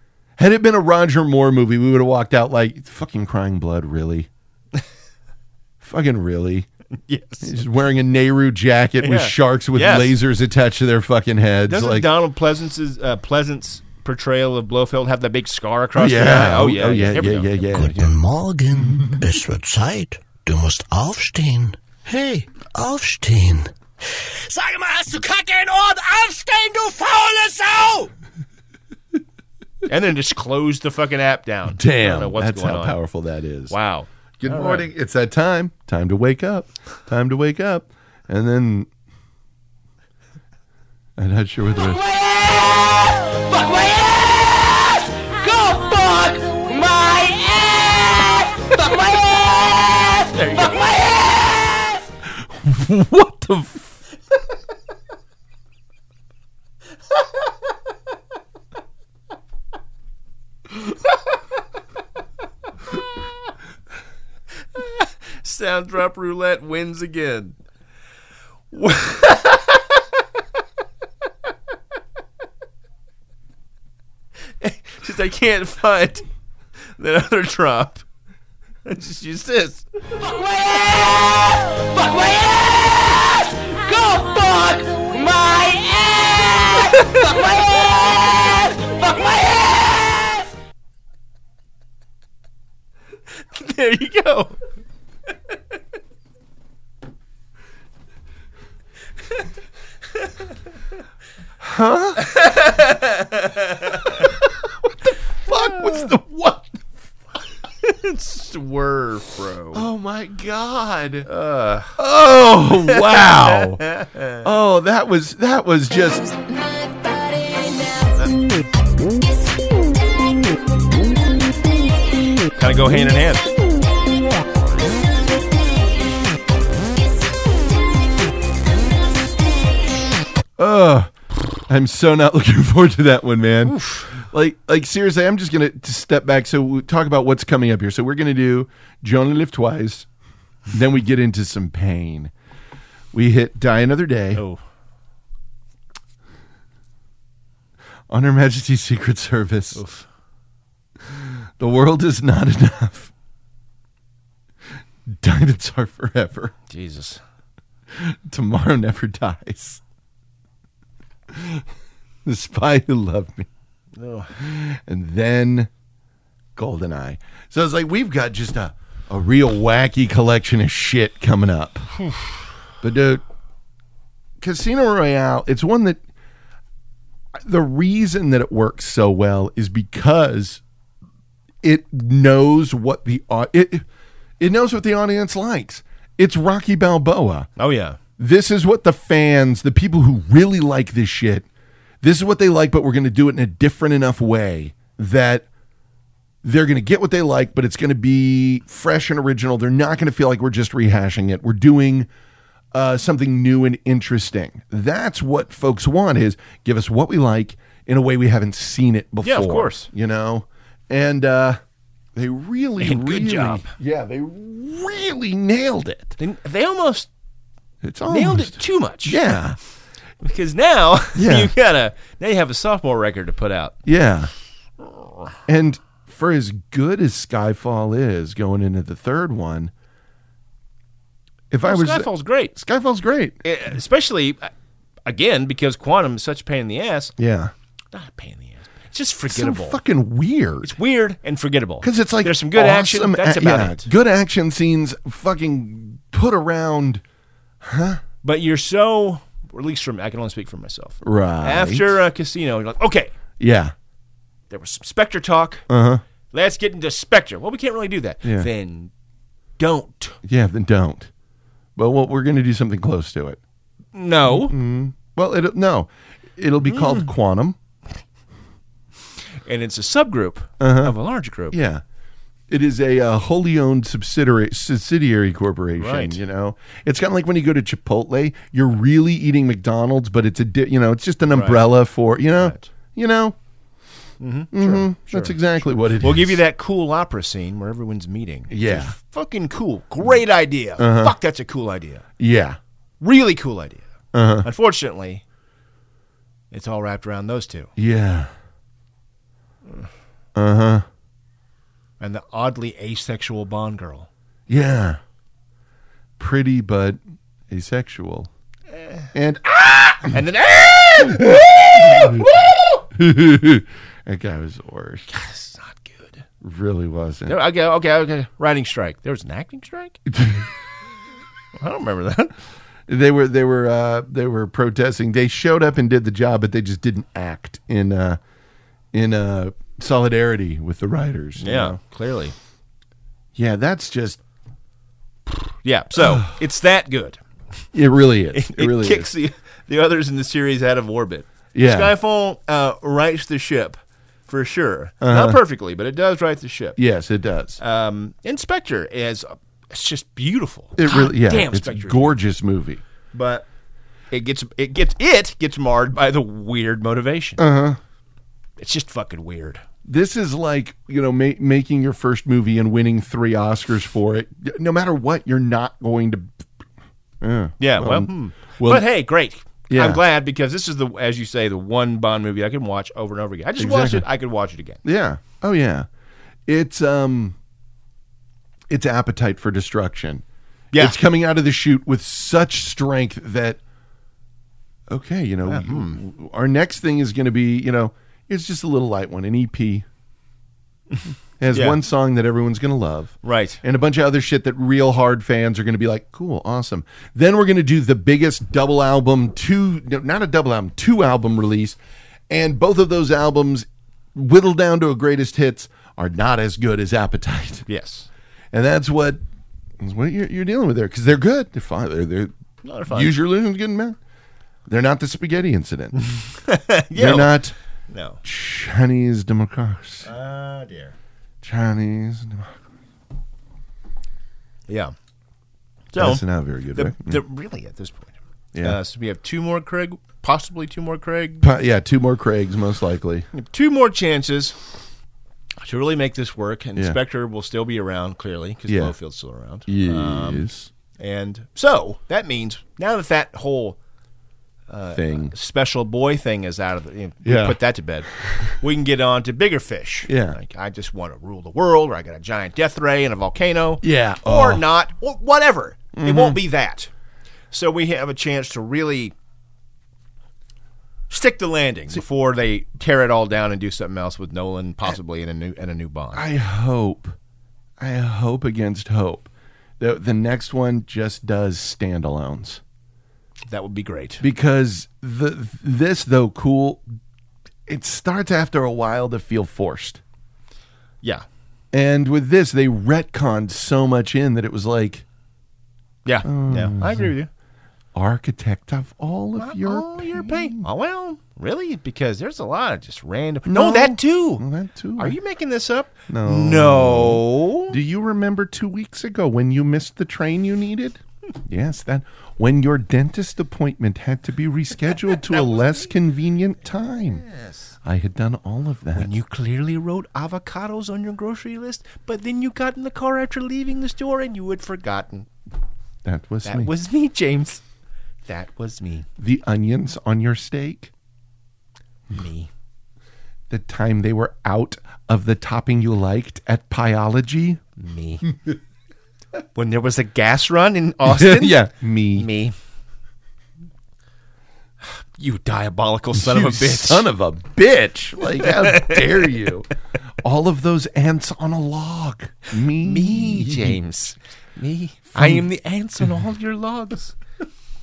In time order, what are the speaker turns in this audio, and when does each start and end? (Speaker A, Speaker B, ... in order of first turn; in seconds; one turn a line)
Speaker A: 0.4-4.3
Speaker A: 5.8-6.7
Speaker B: 7.0-7.5
Speaker A: 7.4-12.1
Speaker B: 9.0-10.2
Speaker B: 11.7-17.7
Speaker A: 15.9-18.1
Speaker C: 17.7-28.1
Speaker A: 18.9-19.1
Speaker B: 29.9-33.0
Speaker A: 31.7-33.8
Speaker B: 33.7-34.9
Speaker A: 34.4-38.9
Speaker A: 41.2-42.0
Speaker C: 41.8-52.0
Speaker A: 52.4-53.9
Speaker B: 64.8-67.5
Speaker B: 68.7-69.9
Speaker B: 74.6-76.2
Speaker B: 76.8-78.0
Speaker B: 78.8-79.8
Speaker C: 80.2-90.5
Speaker B: 93.3-94.6
Speaker A: 101.6-102.2
Speaker B: 102.2-104.3
Speaker A: 104.1-104.5
Speaker A: 105.4-106.8
Speaker B: 105.7-106.1
Speaker B: 107.8-109.8
Speaker A: 109.7-111.3
Speaker B: 111.2-112.0
Speaker A: 112.0-113.8
Speaker B: 112.8-114.4
Speaker A: 114.3-116.3
Speaker C: 116.5-118.1
Speaker B: 122.5-123.5
Speaker A: 130.6-131.1
Speaker A: 131.6-140.1
Speaker B: 133.6-134.1
Speaker A: 140.7-142.3
Speaker A: 143.1-144.4
Speaker B: 144.3-144.6
Speaker A: 148.1-149.8
Speaker B: 149.7-150.1
Speaker A: 151.1-153.1
Speaker A: 155.1-156.5
Speaker B: 156.7-157.2
Speaker A: 157.9-159.8
Speaker A: 161.3-161.6
Speaker A: 162.2-163.5
Speaker B: 163.9-164.3
Speaker A: 164.4-165.7
Speaker A: 166.6-171.9
Speaker A: 172.8-173.2
Speaker A: 174.4-176.0
Speaker A: 177.4-180.6
Speaker A: 181.6-183.8
Speaker A: 184.4-187.5
Speaker B: 187.6-188.0
Speaker A: 188.2-191.5
Speaker A: 192.0-195.4
Speaker A: 196.4-202.1
Speaker A: 202.7-211.6
Speaker B: 209.2-209.9
Speaker A: 212.1-216.2
Speaker B: 212.8-213.7
Speaker B: 216.2-217.1
Speaker A: 217.8-219.6
Speaker B: 218.1-219.2
Speaker B: 220.2-223.8
Speaker A: 221.1-221.5
Speaker A: 223.8-224.3
Speaker B: 224.8-225.3
Speaker A: 225.5-229.7
Speaker A: 231.5-233.4
Speaker B: 231.6-232.6
Speaker B: 233.4-234.5
Speaker B: 235.0-237.1
Speaker A: 237.2-237.5
Speaker B: 237.9-239.8
Speaker A: 239.3-240.7
Speaker B: 240.6-243.9
Speaker A: 241.8-247.0
Speaker A: 247.6-248.0
Speaker B: 248.2-253.1
Speaker A: 251.0-251.9
Speaker A: 253.4-253.7
Speaker B: 254.5-255.7
Speaker A: 255.7-256.0
Speaker B: 256.3-258.9
Speaker A: 258.2-258.5
Speaker B: 259.6-260.2
Speaker A: 260.2-261.1
Speaker A: 261.8-263.4
Speaker B: 263.9-264.6
Speaker A: 264.2-267.6
Speaker B: 266.6-267.1
Speaker B: 269.4-271.6
Speaker A: 270.6-270.9
Speaker A: 271.5-271.8
Speaker A: 272.5-283.4
Speaker B: 275.8-276.2
Speaker B: 281.3-281.6
Speaker B: 282.3-282.7
Speaker B: 284.2-285.4
Speaker A: 284.5-286.4
Speaker B: 286.0-292.0
Speaker A: 288.5-288.9
Speaker A: 290.8-291.1
Speaker A: 292.2-292.6
Speaker B: 293.0-293.8
Speaker A: 294.1-294.5
Speaker B: 294.4-295.2
Speaker B: 296.5-297.7
Speaker A: 297.8-298.3
Speaker A: 300.3-300.9
Speaker B: 302.0-304.1
Speaker A: 304.5-305.0
Speaker A: 306.2-307.0
Speaker A: 307.5-308.3
Speaker B: 308.7-309.1
Speaker A: 309.1-310.2
Speaker B: 310.1-312.8
Speaker A: 311.1-312.3
Speaker A: 312.9-315.1
Speaker B: 315.1-316.2
Speaker A: 316.4-317.4
Speaker B: 317.3-320.0
Speaker A: 320.1-320.5
Speaker B: 321.6-322.3
Speaker A: 322.9-328.2
Speaker A: 328.9-331.8
Speaker B: 331.4-332.3
Speaker A: 333.3-334.2
Speaker B: 335.6-337.2
Speaker A: 337.7-339.1
Speaker B: 338.3-346.8
Speaker A: 341.5-341.9
Speaker A: 345.0-345.4
Speaker A: 346.8-347.6
Speaker B: 347.6-352.2
Speaker A: 350.8-352.8
Speaker B: 353.1-353.4
Speaker B: 354.1-357.4
Speaker A: 357.4-357.8
Speaker B: 358.6-359.6
Speaker A: 359.8-366.4
Speaker A: 367.2-368.9
Speaker B: 367.6-374.8
Speaker A: 369.7-370.0
Speaker A: 373.6-374.1
Speaker A: 374.8-375.9
Speaker A: 376.5-377.4
Speaker A: 378.7-380.2
Speaker B: 380.7-381.0
Speaker A: 380.7-383.6
Speaker A: 384.9-389.9
Speaker B: 385.4-386.0
Speaker A: 391.4-401.8
Speaker B: 391.5-391.8
Speaker B: 393.2-393.6
Speaker A: 402.3-407.7
Speaker B: 407.7-408.1
Speaker A: 408.5-409.2
Speaker A: 409.8-412.3
Speaker B: 412.6-413.2
Speaker A: 412.9-414.0
Speaker A: 414.7-416.0
Speaker B: 416.0-418.2
Speaker A: 416.9-417.5
Speaker A: 418.2-420.1
Speaker B: 420.0-420.9
Speaker A: 421.4-422.6
Speaker B: 424.7-424.9
Speaker B: 425.9-431.5
Speaker A: 425.9-427.2
Speaker A: 428.5-428.8
Speaker A: 431.4-433.3
Speaker B: 433.3-434.6
Speaker B: 435.6-440.4
Speaker A: 438.7-438.9
Speaker A: 439.7-440.7
Speaker B: 441.0-443.8
Speaker B: 444.7-456.9
Speaker A: 444.9-445.3
Speaker A: 447.2-447.6
Speaker A: 448.1-448.6
Speaker A: 450.1-450.4
Speaker A: 453.8-454.6
Speaker A: 455.9-456.4
Speaker B: 457.5-459.1
Speaker B: 461.1-466.2
Speaker A: 466.1-467.1
Speaker A: 467.8-472.6
Speaker B: 473.5-474.2
Speaker A: 474.2-476.9
Speaker A: 477.7-480.0
Speaker A: 481.7-485.0
Speaker B: 486.0-487.3
Speaker A: 486.2-487.1
Speaker A: 487.9-490.6
Speaker B: 489.4-494.4
Speaker A: 493.4-495.1
Speaker B: 495.0-497.8
Speaker A: 496.1-507.2
Speaker B: 505.0-505.9
Speaker B: 507.1-507.7
Speaker A: 507.8-509.1
Speaker B: 508.9-515.3
Speaker A: 516.0-516.7
Speaker B: 516.4-517.6
Speaker B: 518.2-519.1
Speaker A: 519.2-520.9
Speaker B: 522.1-522.5
Speaker A: 523.5-527.6
Speaker B: 527.8-528.2
Speaker B: 529.5-532.5
Speaker A: 531.0-532.3
Speaker B: 534.8-537.1
Speaker A: 536.1-539.7
Speaker B: 538.3-539.5
Speaker A: 540.2-543.8
Speaker B: 542.6-547.1
Speaker A: 545.1-545.4